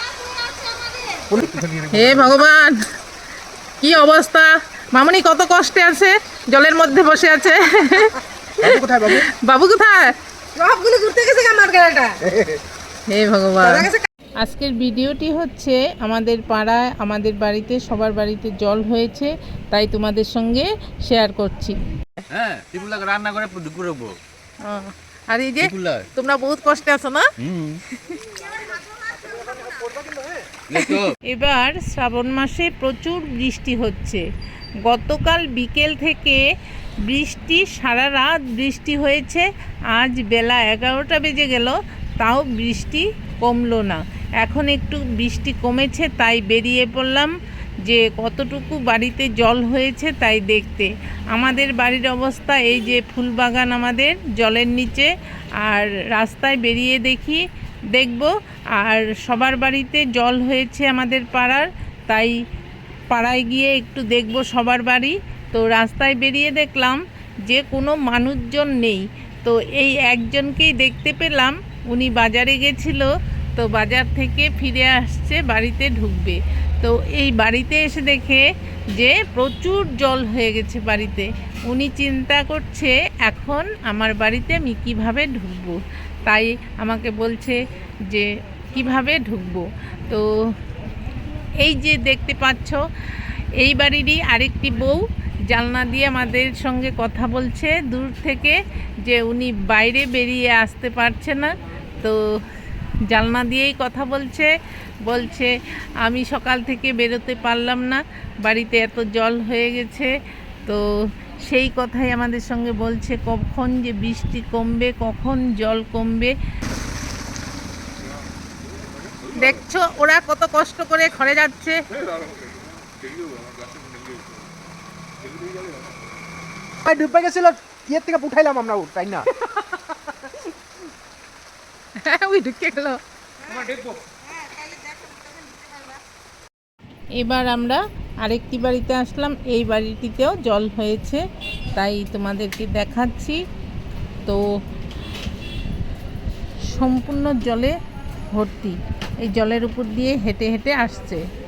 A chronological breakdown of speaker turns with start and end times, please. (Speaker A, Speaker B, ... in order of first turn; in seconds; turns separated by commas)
Speaker A: 1.3-2.3, Speaker B: 1.9-2.8, Speaker B: 3.8-10.2, Speaker A: 8.6-9.2, Speaker C: 10.6-12.4, Speaker B: 13.1-13.9, Speaker C: 13.6-14.0, Speaker B: 14.4-21.8, Speaker D: 22.3-24.1, Speaker B: 24.6-27.3, Speaker D: 25.6-26.1, Speaker D: 27.4-27.8, Speaker B: 27.9-28.2, Speaker C: 29.1-30.4, Speaker D: 30.7-31.1, Speaker B: 30.7-34.2, Speaker B: 34.9-36.4, Speaker B: 37.0-47.3, Speaker B: 47.8-62.4, Speaker B: 63.1-90.5, Speaker B: 91.6-102.5, Speaker B: 103.1-104.5, Speaker B: 105.0-110.1, Speaker B: 111.5-116.3, Speaker B: 119.3-121.8, Speaker A: 126.8-129.3, Speaker B: 132.0-133.0, Speaker B: 137.2-141.2, Speaker B: 141.8-143.4, Speaker B: 146.7-147.8, Speaker B: 148.3-151.2